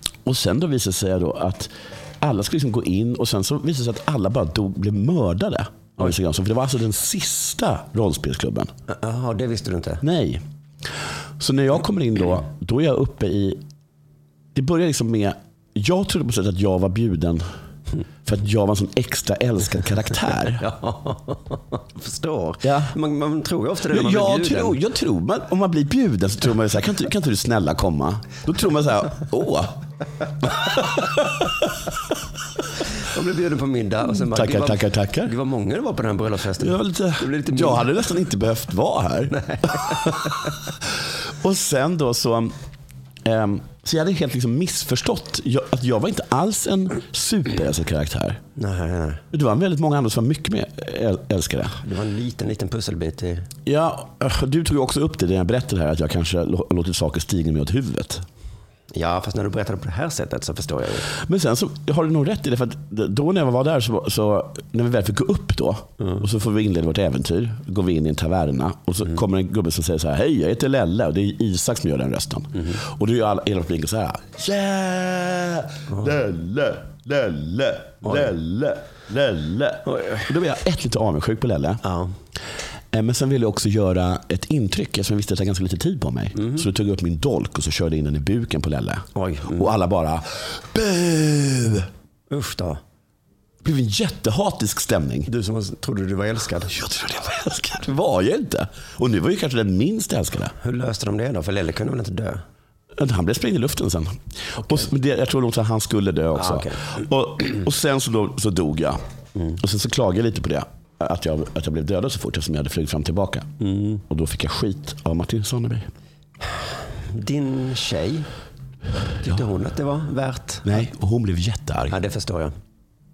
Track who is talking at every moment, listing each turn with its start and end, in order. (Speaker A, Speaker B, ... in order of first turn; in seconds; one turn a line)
Speaker A: 0.2-8.7
Speaker B: 8.9-10.0
Speaker A: 10.0-10.4
Speaker A: 11.4-13.6
Speaker A: 14.6-17.4
Speaker A: 18.2-20.6
Speaker B: 20.6-24.8
Speaker A: 22.6-22.9
Speaker A: 23.9-29.8
Speaker A: 30.6-31.2
Speaker B: 33.0-37.9
Speaker A: 34.1-35.3
Speaker A: 36.6-39.9
Speaker B: 39.3-40.1
Speaker A: 41.4-42.5
Speaker A: 43.2-48.4
Speaker B: 48.6-49.2
Speaker A: 49.3-51.8
Speaker B: 51.7-53.5
Speaker A: 53.7-58.2
Speaker B: 58.9-61.1
Speaker A: 61.1-81.8
Speaker B: 79.9-80.3
Speaker B: 81.8-82.1
Speaker A: 82.9-91.9
Speaker B: 89.2-89.7
Speaker B: 92.3-92.8
Speaker A: 93.6-95.3
Speaker B: 95.3-96.8
Speaker A: 96.7-100.5
Speaker B: 100.6-102.4
Speaker A: 103.0-109.0
Speaker B: 104.6-104.9
Speaker B: 106.4-106.8
Speaker A: 109.6-113.5
Speaker B: 113.6-114.0
Speaker A: 114.1-115.9
Speaker B: 117.1-118.3
Speaker B: 119.2-120.8
Speaker A: 120.7-122.0
Speaker B: 121.9-122.5